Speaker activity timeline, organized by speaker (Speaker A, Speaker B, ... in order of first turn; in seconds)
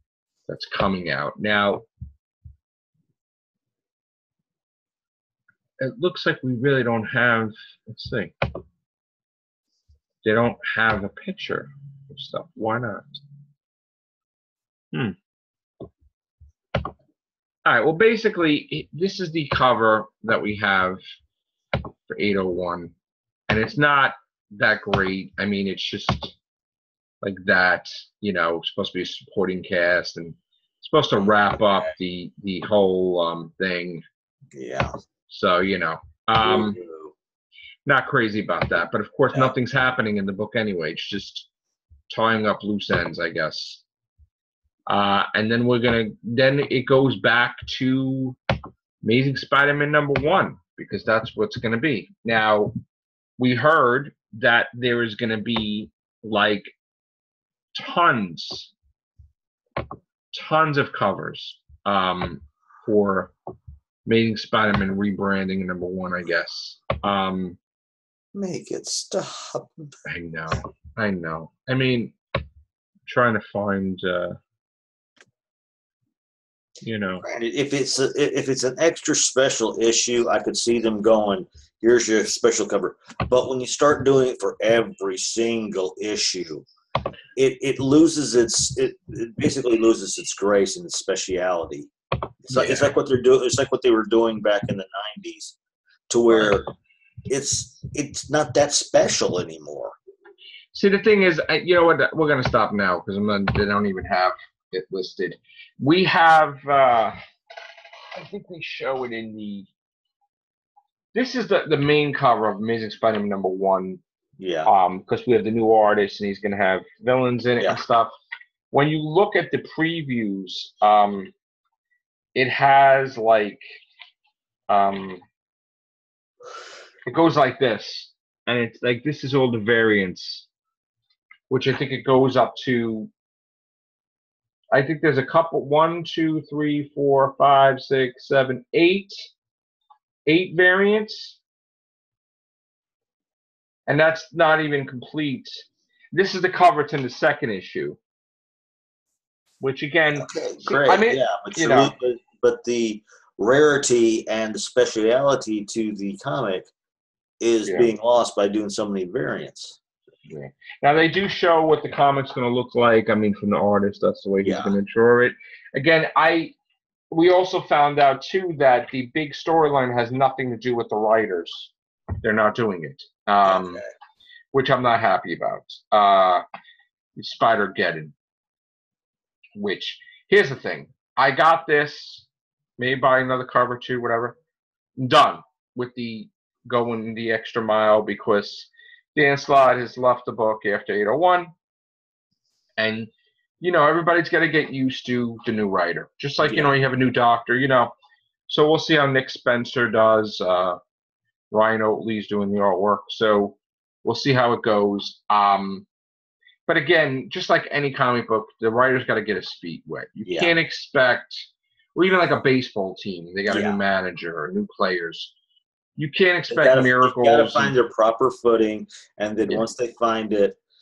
Speaker A: 0.5-1.9, 5.8-8.3, 10.2-13.1, 17.6-21.0, 22.1-22.9, 23.5-26.3, 27.2-34.0, 35.3-36.8, 37.9-41.5, 42.1-43.8, 44.9-48.4, 49.0-52.7, 53.4-56.7, 57.8-58.7, 60.3-63.3, 64.0-67.6, 70.0-72.2, 73.0-74.4, 76.8-77.2, 92.5-93.0, 100.7-107.2, 108.1-109.7, 111.1-114.0, 114.6-118.1, 118.7-121.3, 122.3-123.6, 124.7-125.2, 127.0-130.5, 131.5-133.1, 134.7-139.3, 140.3-141.4, 143.9-148.0, 149.6-151.9, 157.7-157.9, 160.3-166.5, 167.1-173.8, 174.5-176.4, 177.2-178.1, 179.6-182.3, 182.8-184.3, 185.0-191.5, 192.8-193.1, 193.6-197.9, 198.5-200.8, 201.5-205.8, 206.7-215.3, 216.0-217.8
Speaker B: 31.2-31.8, 34.5-34.9, 36.4-37.1, 68.3-70.0, 77.2-86.7, 87.3-91.9, 92.5-95.5, 96.1-96.7, 97.3-99.9, 114.4-114.7, 150.2-156.7, 157.4-159.8, 164.4-164.8, 173.4-173.9, 196.4-196.7, 210.2-210.5, 213.5-213.8, 216.5-220.6